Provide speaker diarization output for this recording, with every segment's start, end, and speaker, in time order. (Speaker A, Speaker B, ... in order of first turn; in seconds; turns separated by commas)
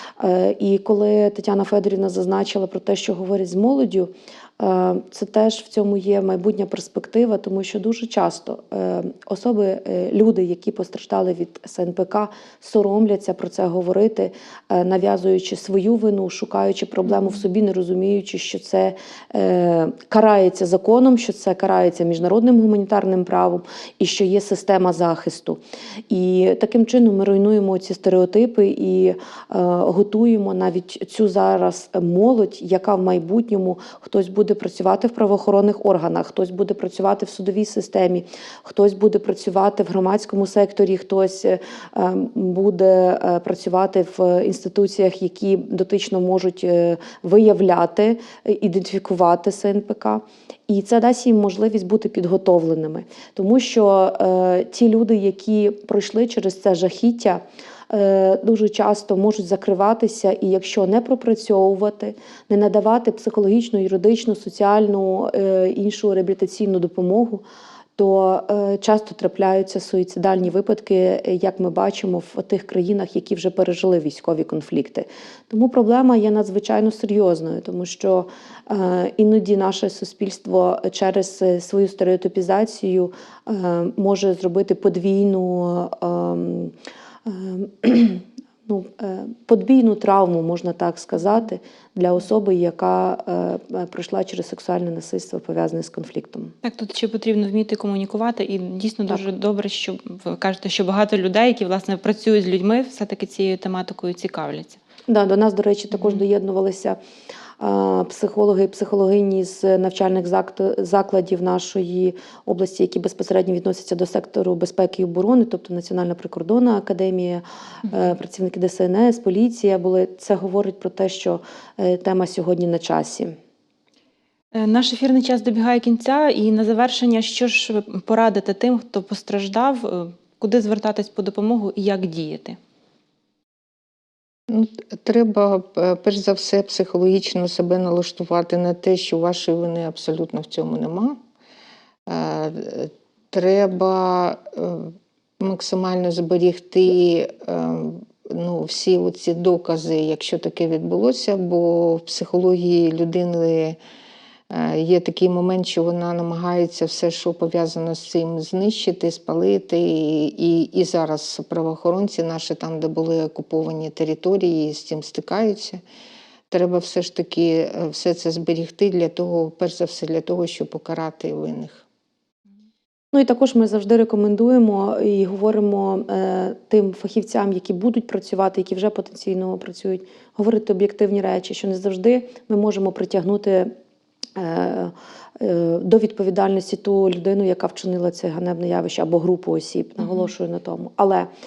Speaker A: 0.2-67.4, Speaker A: 68.0-86.7, Speaker A: 87.2-96.5, Speaker B: 96.6-104.8, Speaker A: 105.1-107.0, Speaker B: 106.0-106.2, Speaker A: 107.6-123.4, Speaker B: 124.5-132.6, Speaker C: 134.5-141.2, Speaker C: 142.1-153.8, Speaker C: 154.5-165.8, Speaker C: 166.5-171.8, Speaker A: 173.1-183.7, Speaker A: 184.3-191.3